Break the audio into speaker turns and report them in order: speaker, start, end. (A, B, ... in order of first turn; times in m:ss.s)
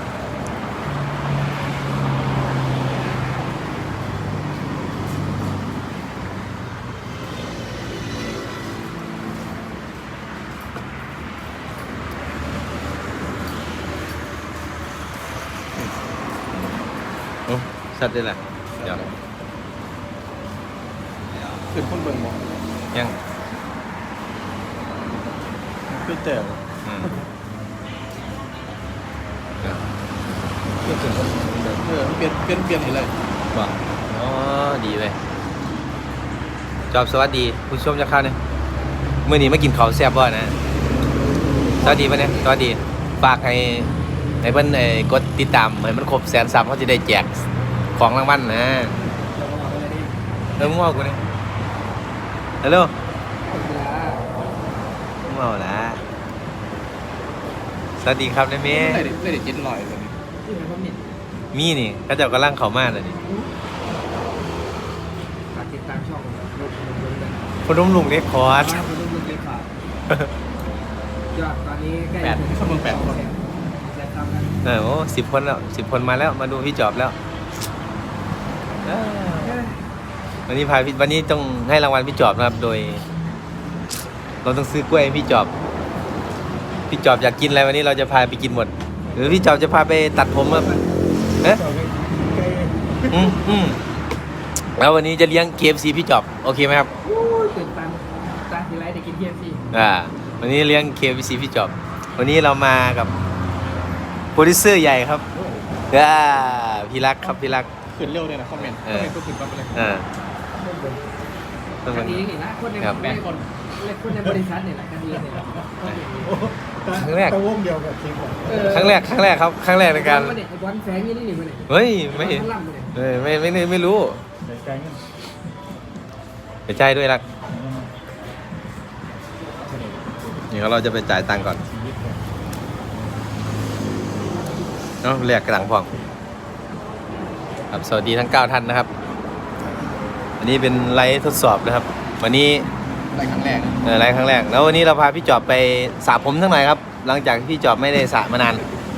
0:17.5-0:19.0 A
0:18.8-0:19.1 B
0:21.7-0:22.5 B
0:25.9-0:26.6 B
0:26.8-0:27.1 A
0:30.8-0:31.8 A
0:31.8-0:33.1 B
0:33.5-0:35.2 A
0:36.9-0:38.4 A
0:39.2-0:40.6 A
0:41.8-0:42.5 C
0:41.8-0:43.9 A
0:44.4-0:48.9 A
0:49.4-0:50.1 C
0:50.6-0:51.2 A
0:52.6-0:52.9 A
0:53.4-0:54.3 C
0:55.2-0:56.0 A
0:58.0-0:59.0 A
0:58.7-1:00.2 B
1:00.4-1:01.1 C
1:01.5-1:03.2 A
1:05.5-1:07.5 C
1:07.6-1:08.8 A
1:08.6-1:09.7 C
1:11.3-1:14.6 C
1:12.2-1:13.2 B
1:14.6-1:17.1 A
1:18.8-1:19.6 A
1:19.4-1:19.8 C
1:20.5-1:23.0 A
1:24.4-1:25.5 A
1:26.9-1:30.7 A
1:29.1-1:29.4 C
1:30.4-1:31.0 C
1:31.5-1:33.3 D
1:33.1-1:33.8 A
1:34.8-1:36.9 A
1:37.0-1:39.6 C
1:39.7-1:43.1 A
1:44.3-1:45.2 A
1:45.9-1:47.7 A
1:47.8-1:49.8 B
1:48.6-1:49.1 A
1:49.7-1:50.1 A
1:50.7-1:51.0 D
1:51.8-1:52.2 A
1:51.9-1:56.4 C
1:53.0-1:53.5 B
1:56.3-1:58.6 D
1:56.9-1:57.4 A
1:58.4-1:59.0 C
1:58.6-2:00.4 A
1:59.8-2:02.9 C
2:01.7-2:04.2 A
2:04.4-2:05.0 D
2:06.7-2:07.2 A
2:07.5-2:07.8 D
2:10.5-2:11.6 A
2:11.7-2:12.1 D
2:15.0-2:15.9 A
2:17.7-2:18.9 A
2:20.4-2:22.7 A
2:23.1-2:23.8 B
2:23.8-2:28.6 A